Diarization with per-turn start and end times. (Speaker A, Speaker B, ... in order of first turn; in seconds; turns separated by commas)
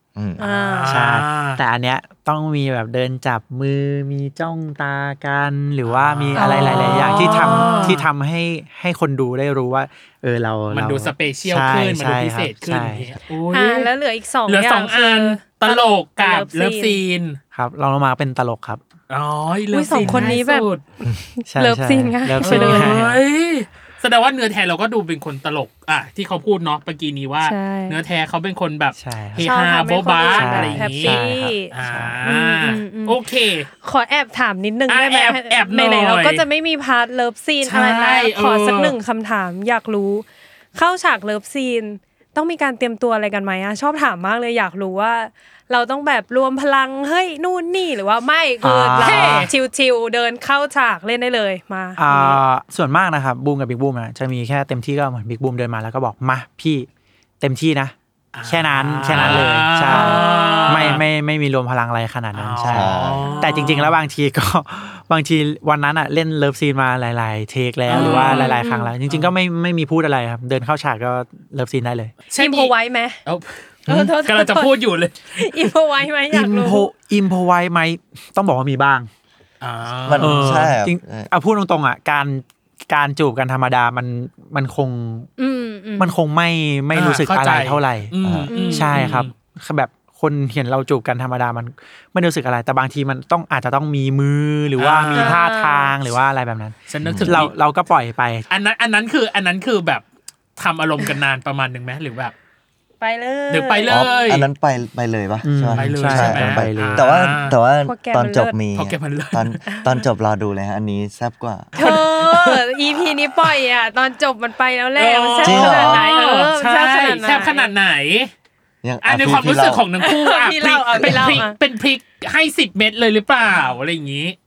Speaker A: 0.1-0.4, Speaker B: 0.4-1.0, Speaker C: 0.4-1.6, Speaker D: 0.9-13.1, Speaker C: 5.9-8.0, Speaker B: 6.3-7.9, Speaker C: 10.7-13.9, Speaker B: 13.5-17.0, Speaker C: 14.5-17.4, Speaker D: 17.5-18.8, Speaker C: 19.1-20.8, Speaker B: 19.7-20.7, Speaker D: 20.0-20.3, Speaker B: 21.4-23.0, Speaker D: 21.5-23.2, Speaker C: 22.4-31.2, Speaker B: 27.4-28.0, Speaker D: 28.9-29.5, Speaker B: 29.4-31.7, Speaker D: 30.3-32.2, Speaker C: 31.7-33.7, Speaker B: 32.2-33.2, Speaker B: 33.8-52.4, Speaker C: 34.9-36.4, Speaker C: 37.6-39.0, Speaker D: 48.6-49.5, Speaker C: 49.0-49.5, Speaker D: 52.0-56.9, Speaker D: 57.4-57.9, Speaker C: 58.3-61.0, Speaker D: 58.4-72.1, Speaker A: 59.1-59.5, Speaker B: 59.9-61.0, Speaker C: 62.3-63.9, Speaker A: 62.7-63.3, Speaker B: 63.2-63.7, Speaker C: 67.9-68.5, Speaker B: 67.9-68.9, Speaker C: 69.1-69.3, Speaker C: 72.3-72.7, Speaker B: 72.4-73.2, Speaker C: 73.2-73.6, Speaker A: 73.9-74.1, Speaker B: 73.9-74.7, Speaker C: 74.2-75.5, Speaker B: 75.3-76.9, Speaker D: 76.3-79.1, Speaker C: 79.6-80.7, Speaker A: 80.1-81.3, Speaker D: 80.2-85.3, Speaker B: 85.4-86.1, Speaker D: 86.0-98.5, Speaker C: 86.9-89.3, Speaker A: 88.2-88.5, Speaker B: 88.5-89.1, Speaker C: 94.8-95.4, Speaker B: 95.1-95.9, Speaker C: 96.9-97.5, Speaker A: 97.0-97.3, Speaker C: 98.5-100.0, Speaker C: 100.6-102.3, Speaker B: 103.0-104.2, Speaker C: 103.5-104.5, Speaker A: 103.9-111.7, Speaker D: 105.4-107.0, Speaker C: 105.7-107.5, Speaker B: 107.8-108.5, Speaker C: 108.7-109.6, Speaker C: 111.8-112.8, Speaker B: 111.8-117.7, Speaker C: 115.0-118.3, Speaker A: 115.4-116.0, Speaker A: 118.8-119.8, Speaker C: 119.0-124.3, Speaker B: 120.0-121.5